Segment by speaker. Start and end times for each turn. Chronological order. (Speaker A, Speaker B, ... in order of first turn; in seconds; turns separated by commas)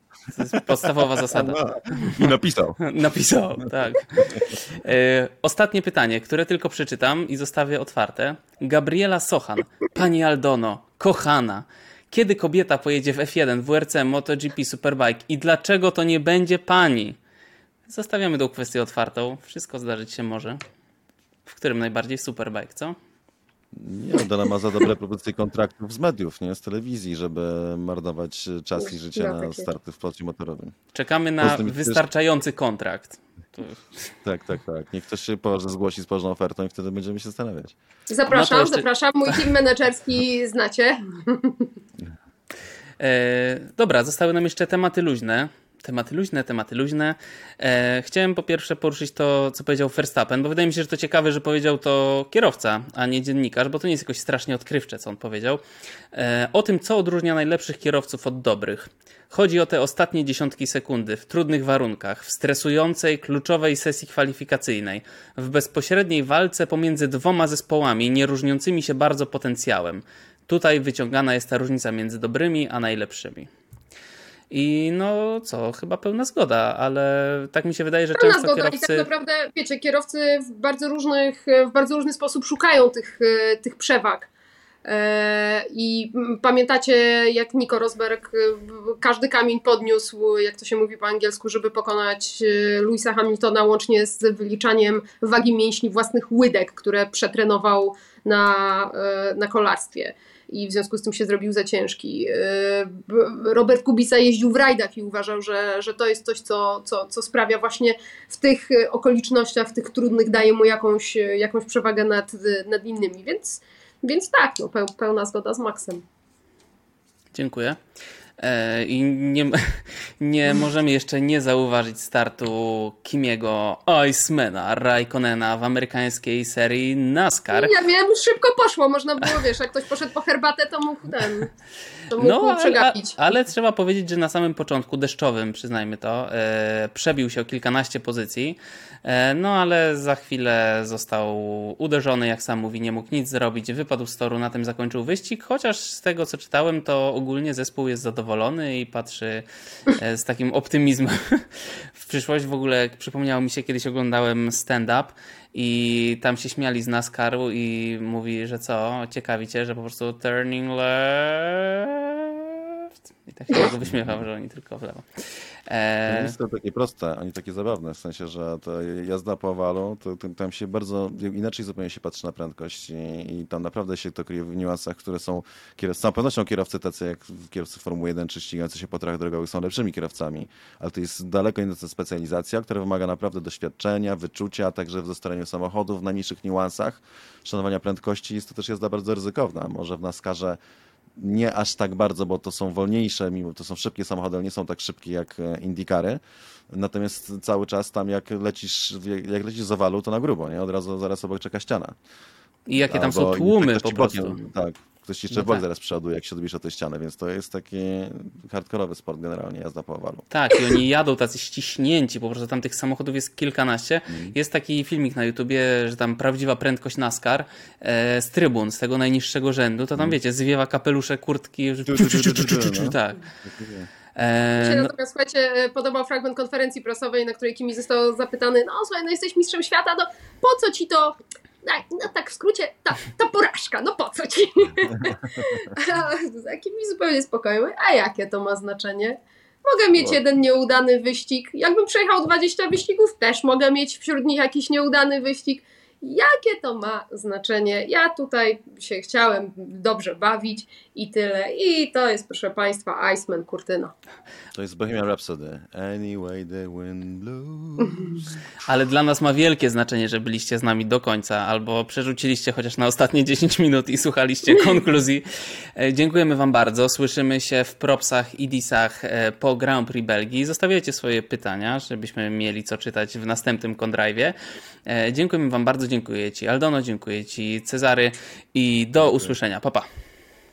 Speaker A: 0.3-17.2, Speaker B: 1.3-2.8, Speaker A: 17.9-20.6, Speaker A: 21.4-22.9, Speaker B: 23.7-30.7, Speaker C: 29.1-29.7, Speaker A: 30.9-34.1, Speaker B: 31.4-32.0, Speaker B: 34.2-37.7, Speaker C: 38.1-41.7, Speaker A: 38.3-39.5, Speaker A: 43.0-73.5, Speaker A: 74.5-79.1, Speaker C: 78.2-84.3, Speaker C: 84.8-116.0, Speaker A: 117.3-117.8, Speaker A: 118.4-127.7, Speaker C: 127.5-131.5, Speaker C: 132.1-133.2, Speaker A: 132.2-166.3, Speaker B: 166.1-190.6, Speaker B: 191.2-196.2, Speaker B: 196.7-201.9, Speaker A: 202.7-204.4, Speaker B: 202.7-210.3, Speaker A: 205.3-205.6, Speaker A: 210.3-223.2, Speaker B: 214.1-214.3, Speaker B: 221.8-223.9, Speaker A: 224.1-224.9, Speaker C: 224.6-253.9, Speaker B: 254.5-258.3, Speaker A: 258.6-279.9, Speaker B: 279.0-279.3